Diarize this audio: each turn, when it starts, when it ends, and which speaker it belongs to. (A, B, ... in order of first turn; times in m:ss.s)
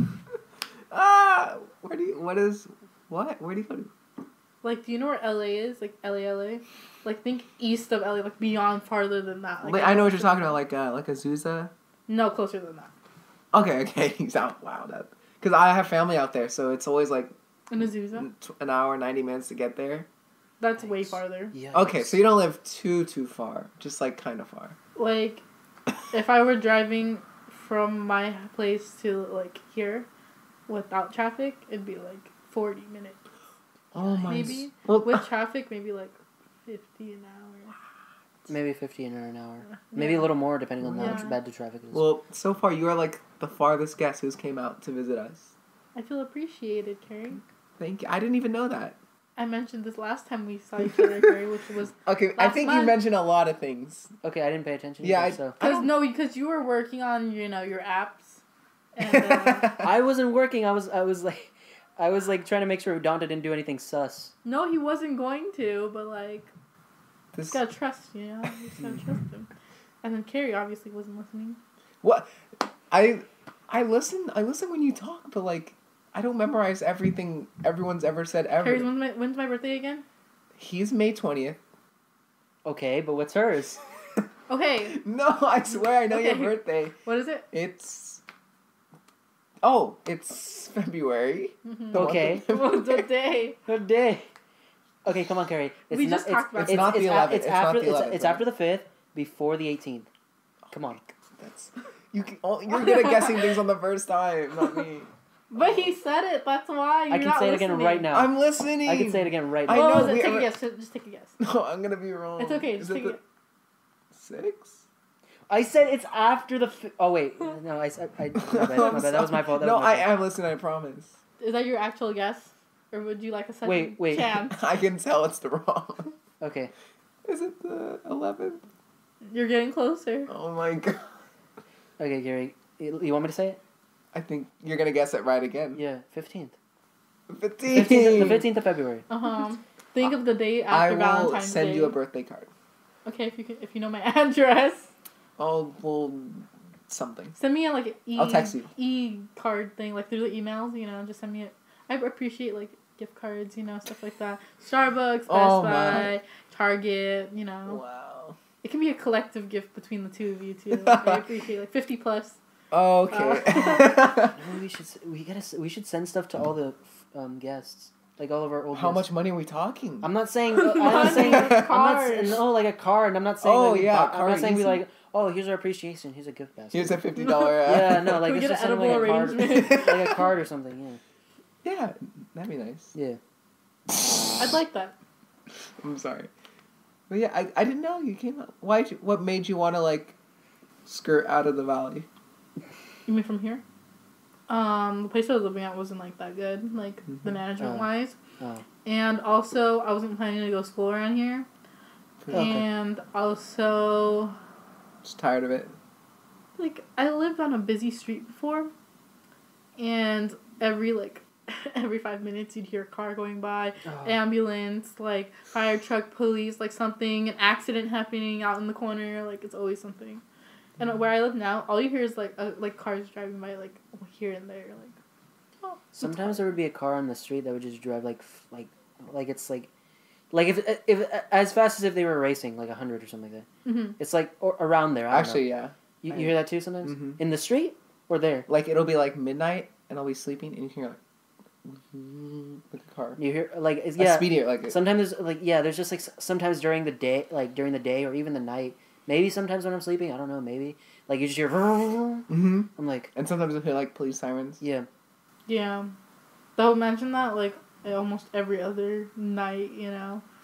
0:00.9-0:03.9 A
0:04.6-0:10.6 B
0:09.6-0:11.7 A
0:12.1-0:12.9 B
0:13.5-0:17.3 A
0:17.7-0:18.3 B
0:18.2-0:20.1 A
0:20.6-0:21.5 B
0:20.8-0:22.2 C
0:21.7-0:24.8 A
0:25.0-0:25.4 B
0:26.1-0:30.1 B
0:30.7-0:33.2 B
0:33.9-0:35.2 A
0:34.0-0:34.6 C
0:34.3-0:36.2 B
0:36.7-0:37.8 B
0:38.5-0:42.1 C
0:39.9-0:40.3 B
0:40.8-0:41.2 A
0:41.0-0:41.4 B
0:41.9-0:45.5 A
0:46.0-0:47.4 B
0:47.8-0:49.0 A
0:49.4-0:53.0 B
0:51.0-0:51.3 A
0:52.1-0:54.1 A
0:54.2-0:55.6 C
0:55.0-0:55.9 A
0:55.6-0:58.4 B
0:59.0-0:59.8 B
0:59.0-0:59.9 A
0:59.8-1:04.3 C
1:04.4-1:06.5 B
1:07.3-1:07.6 A
1:07.5-1:09.5 B
1:10.0-1:11.6 B
1:12.0-1:12.3 A
1:12.9-1:18.9 A
1:18.6-1:20.0 B
1:20.6-1:21.6 A
1:22.6-1:23.8 C
1:24.5-1:25.0 B
1:24.9-1:27.0 A
1:25.9-1:27.5 B
1:27.5-1:28.2 A
1:29.6-1:33.1 A
1:31.7-1:33.6 B
1:31.9-1:32.5 C
1:33.7-1:34.3 C
1:35.0-1:40.1 C
1:35.9-1:37.0 B
1:36.6-1:38.4 A
1:40.7-1:41.0 C
1:40.7-1:45.9 A
1:42.7-1:43.5 B
1:45.5-1:48.1 B
1:47.1-1:48.3 C
1:48.1-1:50.5 A
1:48.8-1:50.2 C
1:49.7-1:51.4 B
1:51.4-1:53.2 A
1:52.4-1:53.2 B
1:54.1-1:54.8 A
1:55.5-2:00.1 C
1:58.4-2:01.2 A
2:01.4-2:04.6 B
2:03.6-2:04.4 C
2:04.5-2:06.1 A
2:06.4-2:06.7 C
2:07.2-2:08.6 A
2:09.2-2:10.3 B
2:10.3-2:11.1 A
2:12.0-2:13.6 C
2:14.1-2:15.8 A
2:15.8-2:16.6 C
2:17.3-2:18.5 A
2:17.7-2:19.1 C
2:19.1-2:22.0 B
2:20.7-2:22.5 A
2:23.0-2:24.9 B
2:25.4-2:27.4 A
2:27.4-2:37.8 B
2:28.2-2:28.7 A
2:35.3-2:36.2 A
2:37.7-2:38.4 A
2:38.6-2:42.4 B
2:40.7-2:41.2 A
2:42.7-2:44.4 A
2:43.1-2:44.1 B
2:44.2-2:49.1 C
2:48.7-2:50.1 A
2:50.0-2:57.1 C
2:50.6-2:52.4 B
2:50.8-2:51.7 A
2:53.4-2:54.8 A
2:56.7-2:58.2 A
2:57.6-3:01.0 C
2:58.0-3:00.2 B
2:58.9-3:00.0 A
3:01.6-3:02.9 A
3:04.4-3:05.0 B
3:05.8-3:06.3 A
3:07.1-3:10.2 A
3:10.8-3:12.1 A
3:13.1-3:13.6 B
3:14.5-3:18.2 B
3:17.6-3:17.9 C
3:18.4-3:18.6 C
3:18.8-3:21.5 B
3:22.2-3:22.5 A
3:22.3-3:24.4 B
3:22.3-3:22.6 C
3:25.0-3:25.8 A
3:26.6-3:28.7 B
3:29.8-3:40.2 B
3:33.9-3:34.2 C
3:40.8-3:44.9 B
3:45.6-3:46.4 B
3:46.0-3:49.7 C
3:50.3-3:53.5 C
3:53.6-3:54.0 B
3:54.0-3:55.4 C
3:55.1-3:57.2 A
3:56.0-3:58.5 C
3:58.5-4:01.0 A
4:01.6-4:03.2 A
4:03.2-4:13.1 C
4:04.0-4:04.8 A
4:12.3-4:14.6 A
4:14.6-4:14.9 C
4:15.5-4:15.9 B
4:16.6-4:20.2 B